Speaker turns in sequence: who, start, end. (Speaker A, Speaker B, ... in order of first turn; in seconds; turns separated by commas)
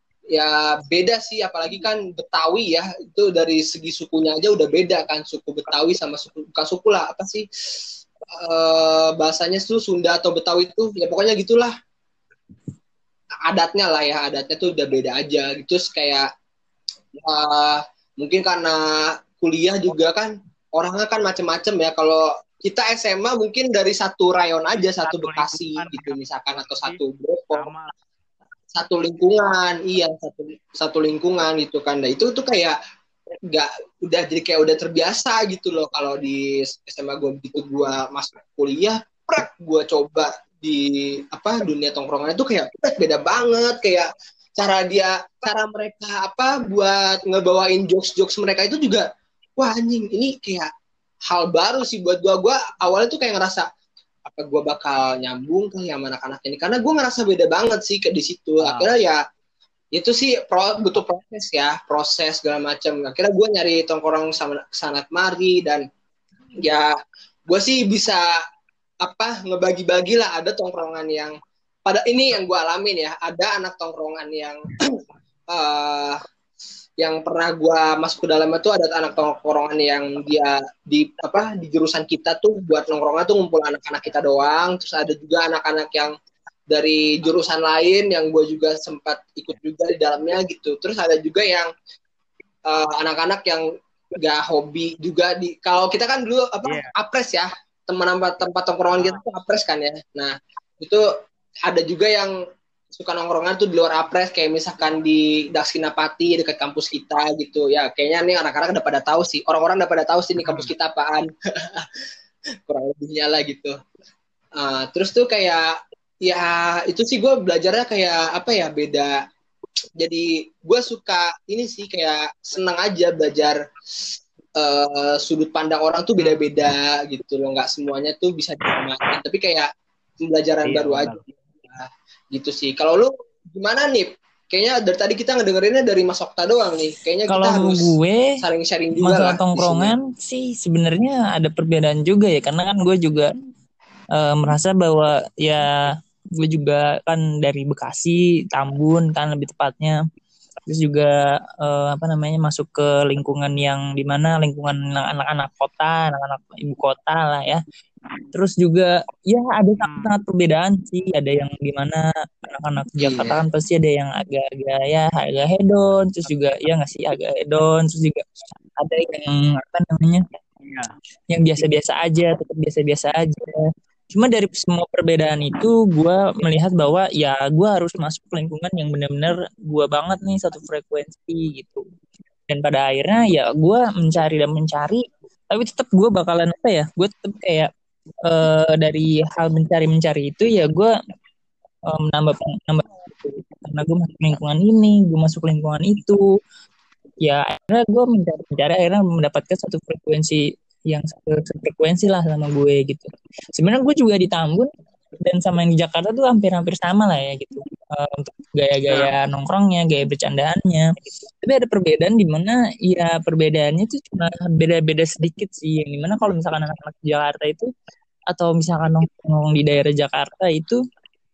Speaker A: 0.3-7.5, Speaker A: 8.3-11.7, Speaker A: 13.5-16.3, Speaker A: 17.1-27.7, Speaker B: 24.7-27.0, Speaker B: 27.5-27.9, Speaker A: 28.7-32.8, Speaker A: 33.5-49.0, Speaker A: 49.6-50.7, Speaker A: 51.3-53.6, Speaker A: 54.2-59.2, Speaker B: 58.6-58.9, Speaker A: 59.9-65.8, Speaker A: 66.6-66.9, Speaker A: 67.5-68.4, Speaker A: 69.0-71.3, Speaker A: 71.8-75.0, Speaker A: 75.5-76.2, Speaker A: 77.0-86.1, Speaker A: 86.7-91.7, Speaker A: 92.7-93.6, Speaker A: 94.1-101.1, Speaker B: 96.6-96.9, Speaker B: 99.0-99.2, Speaker A: 101.6-102.3, Speaker A: 102.9-111.9, Speaker B: 110.4-110.7, Speaker A: 112.7-113.8, Speaker A: 114.6-115.7, Speaker A: 116.2-119.2, Speaker A: 120.0-123.6, Speaker A: 124.6-129.7, Speaker B: 126.2-126.5, Speaker A: 130.2-139.9, Speaker B: 130.6-131.2, Speaker C: 137.3-138.4, Speaker C: 139.0-143.3, Speaker C: 144.1-150.0, Speaker C: 150.7-157.6, Speaker C: 158.3-170.2, Speaker B: 159.8-160.1, Speaker A: 163.0-163.4, Speaker B: 170.6-170.9, Speaker C: 171.3-181.8, Speaker C: 182.5-187.7, Speaker C: 188.2-190.9, Speaker C: 191.9-196.2, Speaker C: 197.2-210.9, Speaker C: 211.4-217.7, Speaker C: 218.3-220.8